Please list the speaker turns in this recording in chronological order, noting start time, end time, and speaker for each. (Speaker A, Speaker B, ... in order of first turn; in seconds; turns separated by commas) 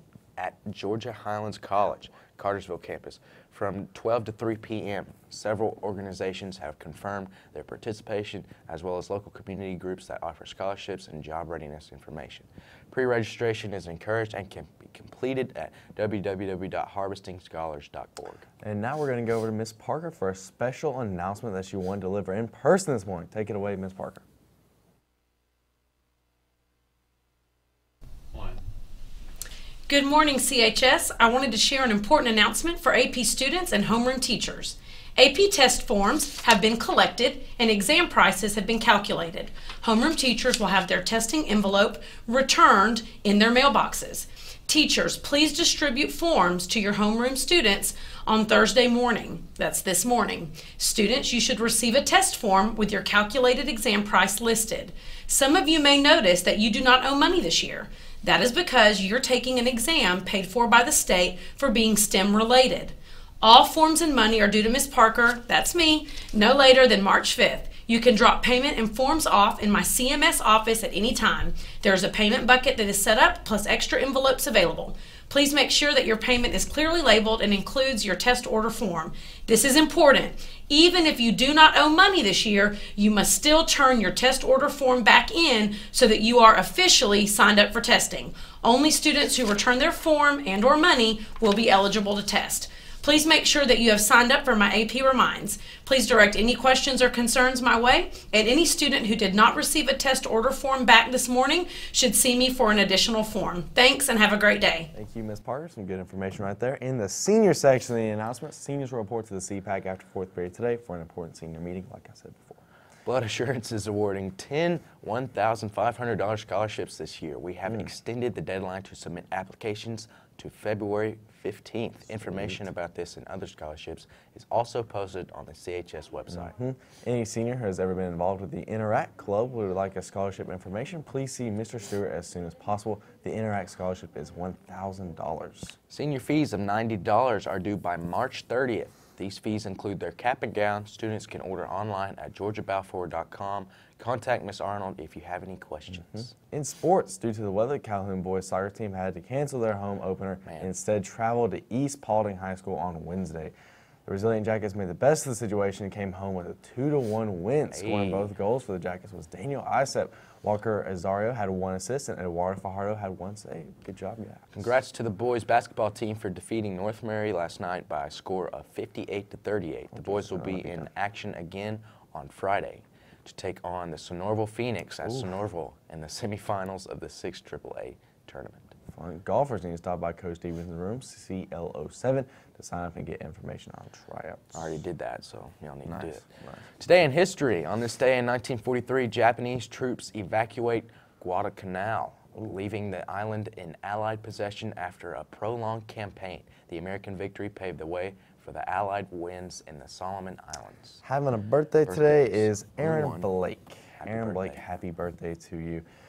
Speaker A: 0.4-18.4, Speaker B: 18.6-24.2, Speaker C: 29.9-104.9, Speaker B: 104.9-112.6, Speaker A: 113.0-126.5, Speaker B: 122.2-122.6, Speaker B: 126.3-135.8, Speaker A: 135.9-146.3, Speaker B: 146.1-153.5, Speaker A: 150.4-150.7, Speaker B: 154.1-164.7, Speaker A: 157.7-158.3, Speaker A: 164.6-178.7, Speaker B: 169.9-170.9, Speaker B: 175.0-175.3, Speaker B: 178.9-184.7, Speaker A: 184.5-186.2, Speaker B: 185.8-186.6, Speaker A: 186.8-201.0, Speaker B: 201.0-205.8, Speaker A: 201.8-203.3, Speaker A: 204.0-204.6